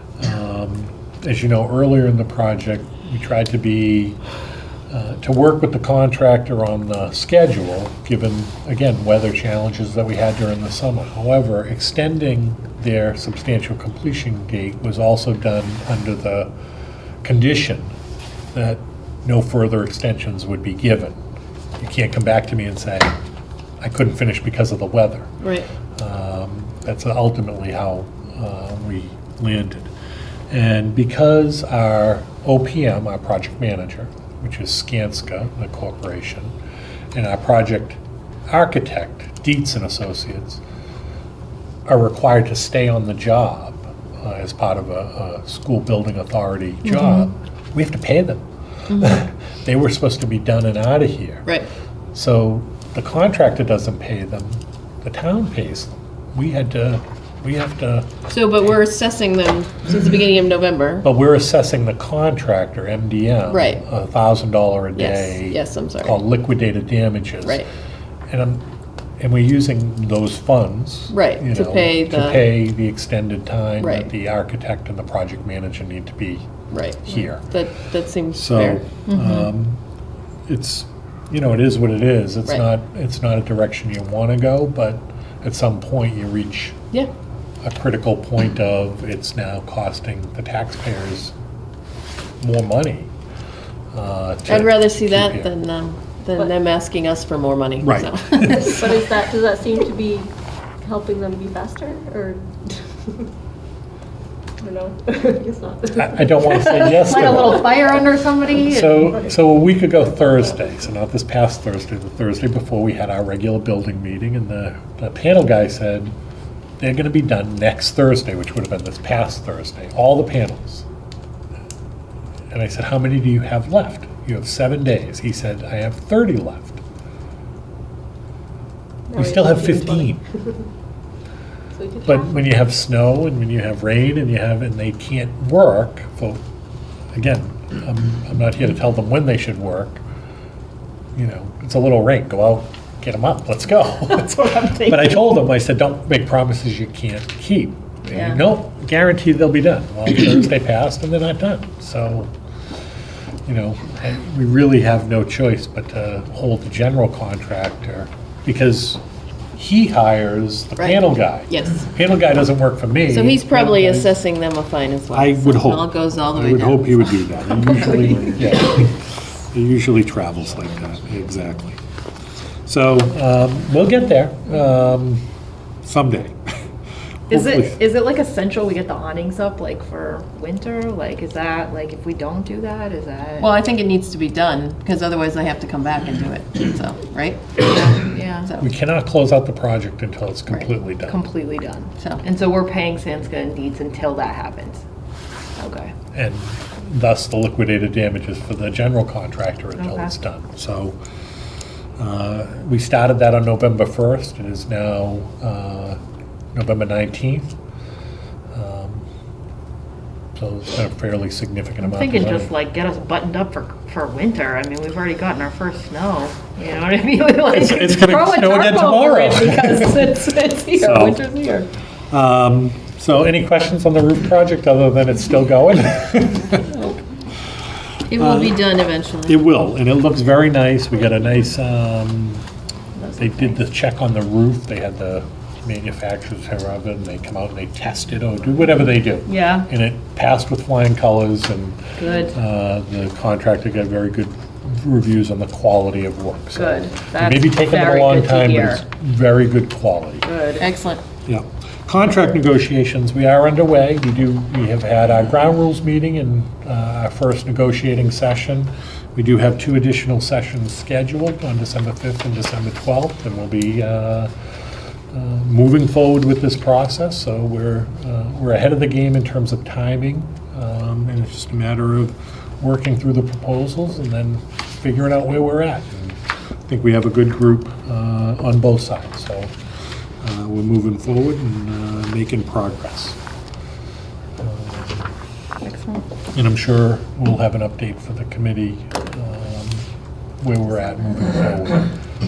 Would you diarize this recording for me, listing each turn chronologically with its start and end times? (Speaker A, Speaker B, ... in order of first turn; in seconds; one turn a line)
Speaker A: 0.2-4.2
Speaker A: 4.9-16.5
Speaker A: 17.2-17.9
Speaker A: 18.5-21.2
Speaker A: 21.8-23.1
Speaker A: 23.8-25.3
Speaker B: 25.4-25.7
Speaker A: 25.9-29.9
Speaker A: 30.5-36.5
Speaker A: 37.1-40.6
Speaker A: 41.9-48.4
Speaker B: 48.9-49.2
Speaker A: 49.0-51.5
Speaker A: 52.1-58.1
Speaker B: 58.3-61.0
Speaker A: 61.0-67.6
Speaker B: 63.5-63.8
Speaker B: 65.0-66.2
Speaker A: 68.3-68.7
Speaker A: 69.2-76.5
Speaker B: 71.1-72.5
Speaker B: 73.8-74.1
Speaker B: 76.7-78.8
Speaker A: 77.0-77.5
Speaker A: 78.3-79.8
Speaker C: 79.1-79.4
Speaker A: 80.5-86.8
Speaker A: 87.6-91.3
Speaker A: 92.4-93.1
Speaker A: 93.9-95.5
Speaker B: 94.5-98.7
Speaker A: 97.8-98.7
Speaker D: 98.4-103.3
Speaker D: 104.6-106.6
Speaker A: 105.9-107.8
Speaker C: 106.5-109.1
Speaker A: 108.5-116.1
Speaker A: 116.8-120.8
Speaker A: 122.5-126.8
Speaker D: 129.1-130.5
Speaker A: 129.1-130.2
Speaker D: 131.7-132.5
Speaker A: 132.0-136.4
Speaker A: 137.1-140.0
Speaker A: 141.2-152.3
Speaker C: 144.0-145.2
Speaker C: 148.1-148.4
Speaker A: 153.4-159.0
Speaker A: 159.5-164.2
Speaker B: 160.8-161.8
Speaker B: 163.1-167.2
Speaker A: 165.1-169.0
Speaker A: 169.5-171.8
Speaker A: 172.7-175.2
Speaker A: 175.8-176.4
Speaker A: 177.3-177.8
Speaker C: 177.3-183.5
Speaker B: 183.4-188.6
Speaker C: 187.7-188.6
Speaker A: 188.6-191.2
Speaker C: 191.1-194.8
Speaker C: 195.6-195.9
Speaker A: 196.1-201.0
Speaker C: 199.8-200.1
Speaker A: 202.0-206.0
Speaker A: 206.5-207.5
Speaker A: 208.5-209.0
Speaker A: 210.3-212.5
Speaker C: 211.8-221.6
Speaker A: 217.5-221.3
Speaker A: 222.1-226.8
Speaker B: 228.1-229.4
Speaker A: 228.2-228.6
Speaker A: 229.2-232.4
Speaker C: 233.0-233.6
Speaker A: 233.2-250.3
Speaker C: 239.2-239.7
Speaker C: 242.0-242.3
Speaker C: 246.5-248.8
Speaker C: 250.2-250.7
Speaker B: 250.6-251.0
Speaker A: 251.2-264.3
Speaker A: 265.1-279.5
Speaker A: 280.2-283.2
Speaker A: 284.4-285.1
Speaker C: 285.6-286.0
Speaker A: 286.3-289.9
Speaker A: 290.4-291.9